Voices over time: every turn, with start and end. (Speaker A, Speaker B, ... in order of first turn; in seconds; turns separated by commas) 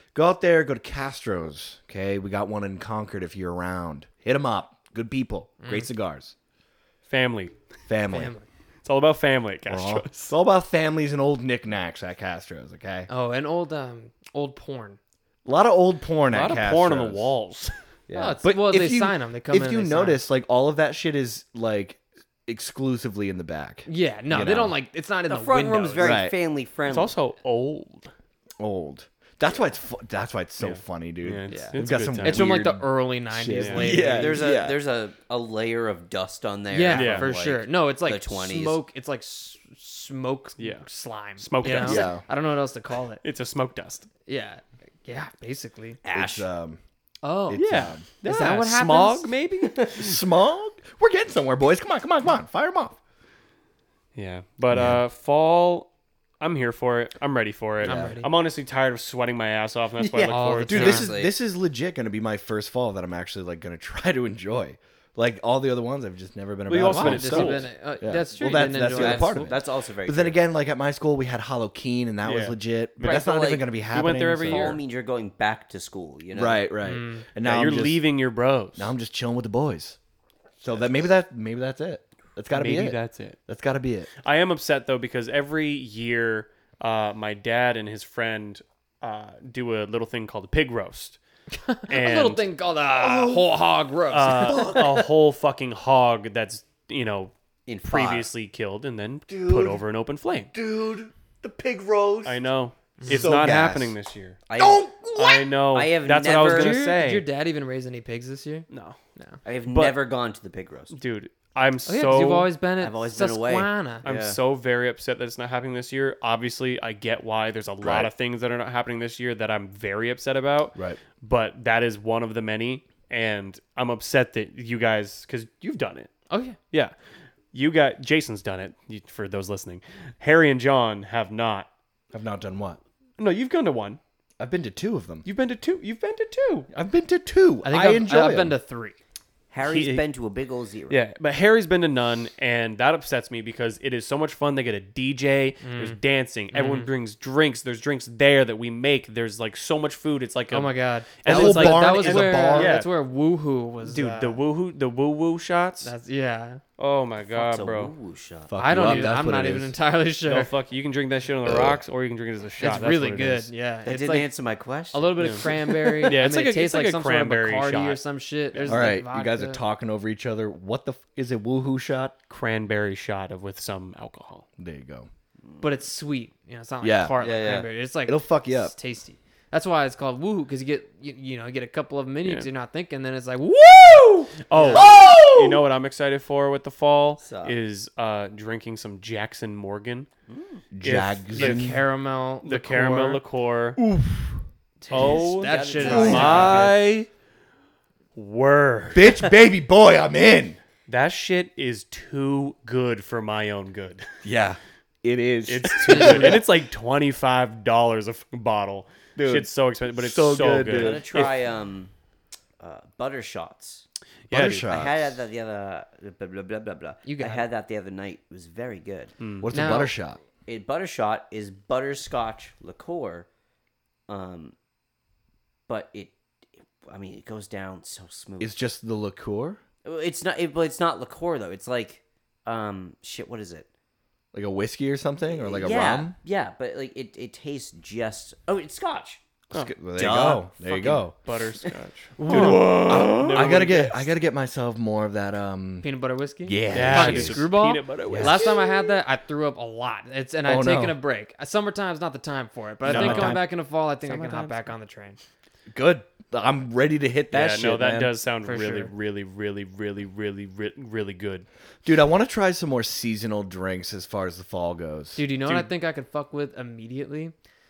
Speaker A: 0.1-6.3, Speaker B: 5.6-5.9, Speaker C: 7.1-7.5, Speaker A: 7.9-8.3, Speaker B: 8.1-8.4, Speaker C: 8.8-10.3, Speaker A: 9.7-13.1, Speaker B: 13.1-15.0, Speaker A: 15.4-17.3, Speaker C: 16.3-17.7, Speaker A: 18.1-24.8, Speaker B: 18.1-20.2, Speaker B: 23.9-26.2, Speaker D: 25.3-27.1, Speaker A: 26.0-26.3, Speaker C: 26.9-28.1, Speaker A: 28.6-34.8, Speaker C: 30.6-32.5, Speaker B: 31.5-34.5, Speaker C: 33.5-34.0, Speaker D: 33.8-38.8, Speaker B: 36.7-43.2, Speaker C: 36.9-37.3, Speaker C: 40.6-40.9, Speaker C: 41.4-42.1, Speaker A: 41.7-42.2, Speaker C: 43.2-44.1, Speaker B: 44.3-46.0, Speaker D: 46.0-46.5, Speaker A: 46.1-46.8, Speaker B: 47.2-49.3, Speaker A: 47.5-48.0, Speaker C: 47.5-50.2, Speaker A: 50.0-53.0, Speaker C: 54.1-55.9, Speaker A: 54.7-55.0, Speaker C: 56.4-61.1, Speaker A: 57.8-58.2, Speaker B: 57.8-58.3, Speaker D: 60.0-61.3, Speaker B: 60.3-61.1, Speaker A: 60.7-74.8, Speaker C: 66.7-67.7, Speaker B: 66.8-69.5, Speaker D: 68.8-70.4, Speaker C: 72.2-74.8, Speaker D: 73.0-73.6, Speaker D: 74.4-76.6, Speaker A: 76.3-78.0, Speaker B: 76.8-77.2, Speaker C: 77.4-78.9, Speaker A: 78.8-80.0, Speaker A: 80.6-84.1, Speaker C: 82.5-83.4, Speaker C: 84.2-91.2, Speaker B: 91.7-94.8, Speaker C: 91.9-92.5, Speaker A: 93.0-93.6, Speaker C: 94.1-97.3, Speaker A: 94.3-95.1, Speaker D: 97.7-98.3, Speaker C: 97.8-100.5, Speaker A: 99.3-99.8, Speaker A: 100.5-102.4, Speaker C: 102.2-104.4, Speaker B: 103.0-103.5, Speaker A: 103.1-103.9, Speaker D: 104.5-106.8, Speaker A: 104.6-105.0, Speaker C: 105.1-107.2, Speaker B: 106.3-109.4, Speaker C: 108.7-109.0, Speaker D: 109.4-110.9, Speaker C: 109.6-110.0, Speaker C: 110.9-112.5, Speaker B: 111.8-114.0, Speaker D: 112.8-114.4, Speaker C: 114.0-126.1, Speaker A: 117.8-118.1, Speaker A: 120.7-121.0, Speaker B: 126.3-126.6, Speaker C: 127.5-131.7, Speaker A: 132.1-132.8, Speaker C: 133.2-134.0, Speaker A: 134.4-135.2, Speaker C: 135.2-136.7, Speaker A: 136.7-138.6, Speaker B: 137.6-139.0, Speaker D: 139.5-141.0, Speaker C: 139.6-140.1, Speaker C: 140.9-152.9, Speaker B: 145.6-146.0, Speaker B: 146.5-146.9, Speaker B: 150.5-154.4, Speaker A: 151.2-152.8, Speaker C: 153.8-155.9, Speaker B: 155.8-156.6, Speaker C: 156.8-157.9, Speaker D: 157.3-158.6, Speaker A: 158.5-159.7, Speaker B: 158.6-160.5, Speaker C: 160.2-163.5, Speaker A: 161.4-161.8, Speaker B: 162.6-164.3, Speaker D: 163.8-165.9, Speaker B: 164.9-169.6, Speaker C: 165.2-165.4, Speaker C: 166.0-168.0, Speaker C: 168.5-168.9, Speaker A: 168.7-172.1, Speaker C: 172.3-174.4, Speaker A: 174.6-175.1, Speaker B: 175.6-184.9, Speaker A: 176.8-177.2, Speaker D: 177.2-177.7, Speaker A: 178.1-178.7, Speaker C: 184.5-190.1, Speaker A: 184.7-185.7, Speaker D: 187.2-187.6, Speaker D: 190.3-190.7, Speaker A: 190.7-191.8, Speaker C: 190.8-191.8, Speaker B: 191.3-193.2, Speaker C: 192.4-193.8, Speaker A: 193.8-194.4, Speaker B: 194.8-196.7, Speaker C: 194.9-197.1, Speaker D: 195.0-196.7, Speaker A: 195.8-196.9, Speaker C: 198.1-199.3, Speaker A: 198.9-200.6, Speaker C: 200.9-204.1, Speaker A: 204.2-206.4, Speaker C: 205.4-211.4, Speaker B: 205.9-206.4, Speaker A: 209.2-211.3, Speaker D: 210.7-211.9, Speaker D: 212.6-213.8, Speaker C: 214.3-214.7, Speaker A: 214.3-215.2, Speaker D: 214.5-219.1, Speaker B: 217.0-217.5, Speaker C: 219.2-219.5, Speaker A: 219.4-220.2, Speaker B: 219.5-219.9, Speaker D: 220.4-223.3, Speaker D: 224.1-224.5, Speaker D: 225.7-226.1, Speaker D: 226.8-228.5, Speaker A: 228.4-229.6, Speaker D: 229.8-233.7, Speaker A: 234.3-236.2, Speaker D: 235.3-239.2, Speaker A: 239.5-241.1, Speaker D: 239.9-241.0, Speaker C: 241.2-244.1, Speaker A: 242.2-245.8, Speaker B: 245.8-255.2, Speaker A: 246.4-247.5, Speaker C: 246.7-248.6, Speaker A: 248.1-248.7, Speaker A: 250.4-251.0, Speaker A: 252.8-253.4, Speaker C: 252.9-253.5, Speaker C: 254.0-254.7, Speaker A: 255.7-258.1, Speaker C: 257.3-261.4, Speaker B: 258.4-258.9, Speaker A: 261.8-265.6, Speaker B: 265.1-267.3